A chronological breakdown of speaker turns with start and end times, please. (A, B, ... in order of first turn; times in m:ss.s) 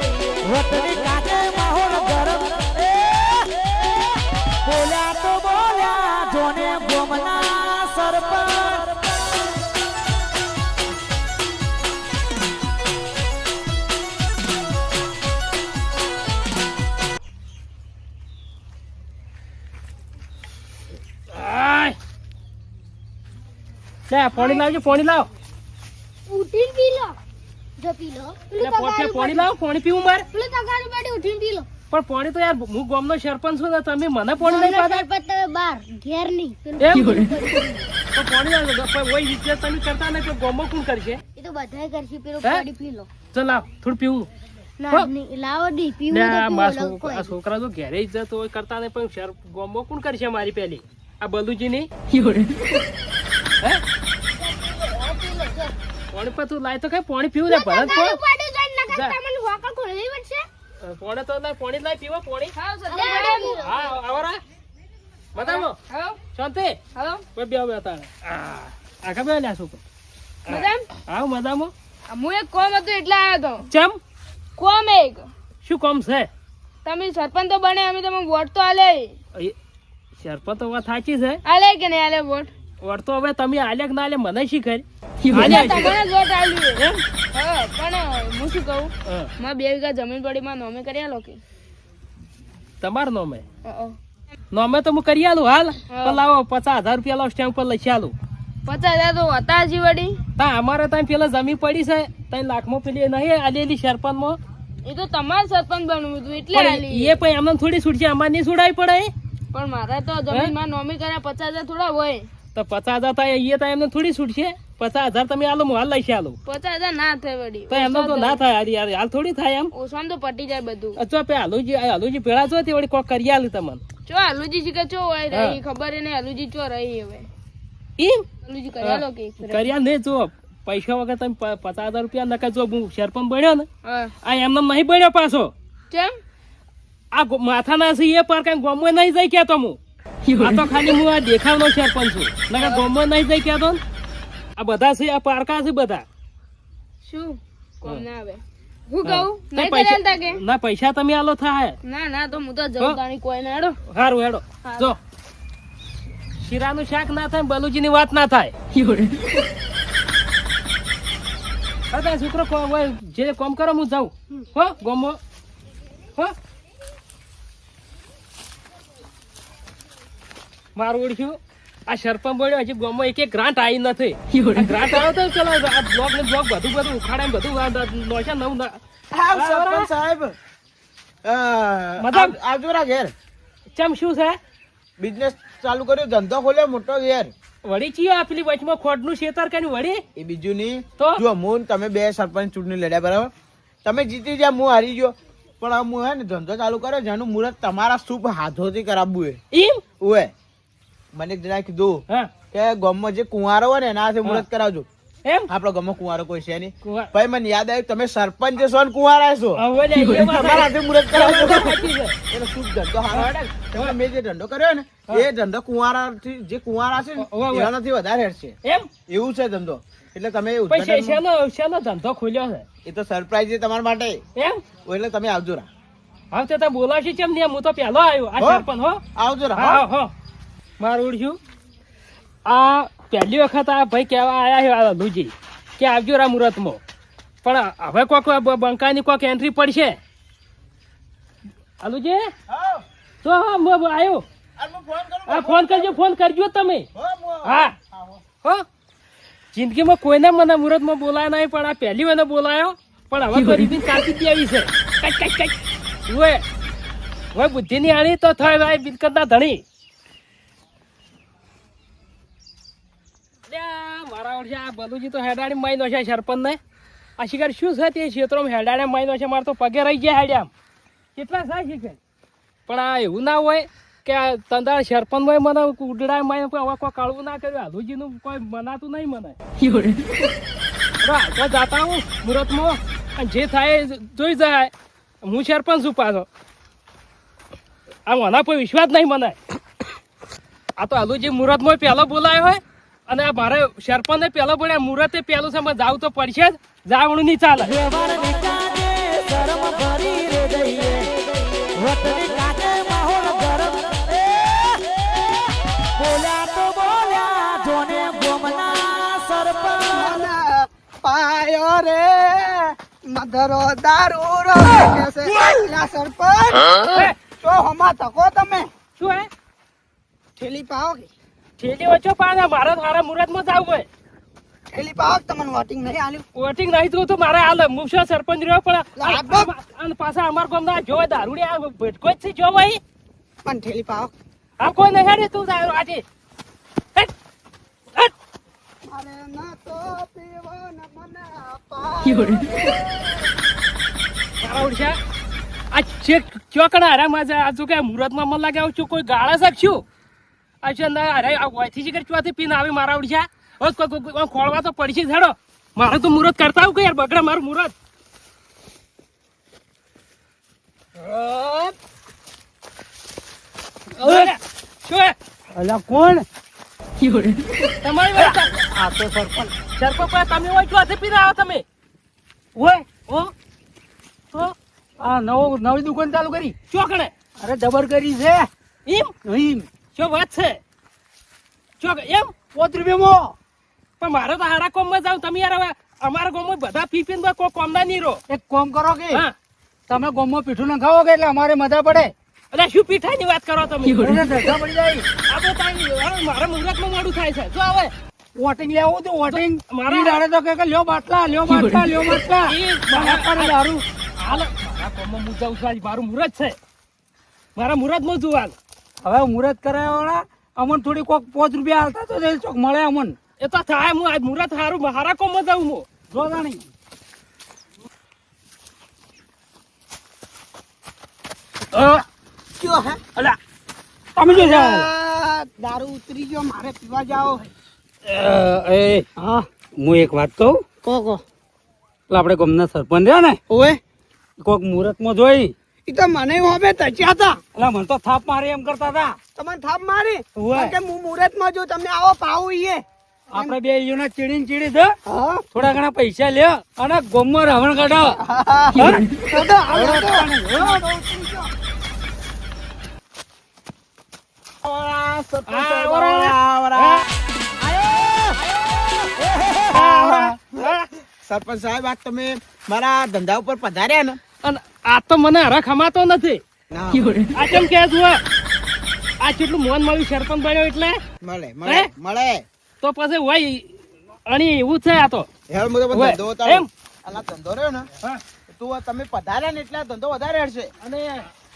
0:00.4-0:02.7 A
0:04.7-0:07.8 A
0:05.5-0:05.8 B
0:07.4-0:08.9 B
0:21.3-0:22.0 C
0:24.1-0:25.3 C
0:24.3-0:24.6 D
0:26.3-0:27.2 D
0:27.8-0:29.5 D
0:28.6-0:30.2 C
0:30.3-0:31.7 D
0:31.9-0:35.0 C
0:34.4-0:37.9 D
0:36.8-0:37.3 C
0:38.1-0:41.2 C
0:41.4-0:43.1 D
0:43.3-0:44.3 C
0:44.8-0:47.3 D
0:46.1-0:51.9 C
0:54.4-0:55.7 D
0:56.1-0:58.2 C
0:57.5-1:00.4 D
0:58.9-0:59.2 C
1:00.8-1:02.5 C
1:02.6-1:03.6 B
1:02.9-1:03.8 D
1:03.5-1:04.4 C
1:05.3-1:05.8 C
1:05.4-1:06.2 B
1:06.3-1:06.8 C
1:06.9-1:07.2 B
1:07.4-1:09.8 C
1:10.5-1:11.7 C
1:10.5-1:10.9 B
1:12.1-1:13.7 B
1:13.7-1:14.0 C
1:14.6-1:15.3 B
1:15.6-1:16.3 C
1:16.8-1:19.1 B
1:20.2-1:21.4 C
1:21.4-1:22.5 B
1:22.8-1:26.0 C
1:25.3-1:31.4 B
1:26.8-1:27.0 C
1:32.8-1:33.4 C
1:33.6-1:34.0 B
1:34.5-1:38.1 C
1:35.9-1:36.2 B
1:38.6-1:40.2 B
1:40.4-1:44.4 C
1:44.8-1:47.2 B
1:46.5-1:49.1 C
1:49.5-1:52.3 B
1:52.5-1:56.4 C
1:56.4-1:58.4 B
1:57.7-1:59.7 C
1:59.7-2:01.0 B
2:01.0-2:03.8 C
2:04.0-2:07.3 B
2:05.3-2:05.6 C
2:08.0-2:08.3 C
2:08.4-2:09.7 B
2:08.8-2:13.7 C
2:13.8-2:14.1 B
2:14.2-2:15.5 C
2:15.9-2:16.1 B
2:17.1-2:19.8 C
2:20.4-2:23.8 C
2:22.6-2:22.8 B
2:24.6-2:26.0 C
2:27.0-2:30.4 B
2:29.0-2:31.8 C
2:31.8-2:33.8 B
2:33.9-2:35.0 C
2:34.6-2:34.9 B
2:36.4-2:38.5 C
2:41.9-2:45.2 C
2:50.8-2:58.8 C
2:59.1-3:00.3 E
2:59.3-2:59.9 C
3:01.2-3:03.1 E
3:02.0-3:02.4 C
3:03.8-3:04.4 C
3:05.0-3:07.3 E
3:07.6-3:10.0 C
3:10.2-3:13.3 E
3:13.8-3:19.4 E
3:19.5-3:19.8 C
3:20.0-3:20.3 E
3:21.1-3:24.9 E
3:25.5-3:38.5 E
3:26.8-3:27.1 C
3:29.6-3:32.2 C
3:33.1-3:34.0 C
3:37.2-3:37.7 C
3:39.1-3:41.2 E
3:40.7-3:42.6 C
3:42.8-3:44.2 E
3:44.4-3:44.6 C
3:44.8-3:45.7 E
3:46.3-3:49.0 C
3:48.4-3:49.8 E
3:49.6-3:50.1 C
3:50.8-3:51.4 C
3:52.4-3:56.8 C
3:57.4-4:00.0 C
4:01.8-4:02.3 C
4:02.5-4:02.8 E
4:03.2-4:04.2 C
4:04.6-4:05.9 E
4:05.3-4:06.9 C
4:06.9-4:08.2 E
4:07.4-4:07.7 C
4:09.5-4:16.4 C
4:17.3-4:19.6 C
4:23.5-4:26.6 C
4:27.2-4:30.5 C
4:31.2-4:32.0 C
4:32.7-4:39.4 C
4:41.0-4:44.7 C
4:45.2-4:46.3 C
4:48.1-4:49.4 C
4:50.8-4:57.8 C
4:57.7-5:01.2 A
4:59.5-4:59.8 B
5:01.8-5:04.7 A
5:06.0-5:09.9 A
5:08.6-5:09.2 B
5:09.9-5:18.7 F
5:19.0-5:19.3 C
5:20.4-5:21.1 F
5:21.6-5:23.9 C
5:24.7-5:26.2 F
5:26.4-5:32.8 C
5:29.0-5:29.5 F
5:33.4-5:34.1 F
5:34.6-5:36.0 C
5:38.8-5:43.3 F
5:44.4-5:45.0 C
5:45.7-5:49.8 C
5:50.6-5:57.7 C
6:01.0-6:01.7 A
6:04.0-6:05.1 C
6:04.0-6:04.3 A
6:05.5-6:06.2 A
6:07.8-6:08.6 C
6:08.2-6:09.5 A
6:09.8-6:11.6 C
6:12.6-6:12.8 A
6:13.0-6:13.3 C
6:15.0-6:16.5 A
6:16.7-6:17.1 C
6:17.4-6:18.5 A
6:18.8-6:19.1 C
6:19.2-6:19.7 A
6:19.9-6:20.6 C
6:21.8-6:22.3 C
6:22.5-6:23.3 A
6:24.0-6:28.2 C
6:28.3-6:29.2 A
6:29.9-6:32.1 A
6:32.5-6:34.5 C
6:34.0-6:35.1 A
6:35.3-6:37.9 C
6:38.4-6:43.8 A
6:39.3-6:40.2 C
6:42.5-6:43.5 C
6:44.2-6:46.6 C
6:47.6-6:48.5 C
6:49.0-6:53.2 A
6:53.4-6:55.9 C
6:56.1-6:56.6 A
7:02.6-7:03.0 F
7:04.2-7:04.9 A
7:04.2-7:07.5 F
7:08.0-7:09.0 A
7:09.2-7:09.4 F
7:09.8-7:10.6 A
7:10.8-7:11.2 F
7:12.1-7:13.4 A
7:13.5-7:13.8 F
7:14.4-7:15.5 A
7:15.9-7:17.4 F
7:17.5-7:19.2 A
7:19.4-7:23.6 F
7:20.4-7:20.8 A
7:23.3-7:24.9 A
7:25.1-7:25.4 F
7:25.5-7:28.2 A
7:28.1-7:31.5 F
7:29.3-7:30.8 A
7:34.6-7:37.0 E
7:35.5-7:37.0 C
7:39.7-7:40.7 E
7:39.7-7:40.8 C
7:41.2-7:44.2 E
7:44.4-7:46.4 C
7:46.7-7:47.2 E
7:47.3-7:48.2 C
7:49.2-7:51.0 C
7:51.2-7:52.4 E
7:51.6-7:51.9 C
7:52.8-7:55.3 C
7:55.5-7:57.9 E
7:55.9-7:56.7 C
7:58.5-8:00.7 E
8:00.8-8:01.3 C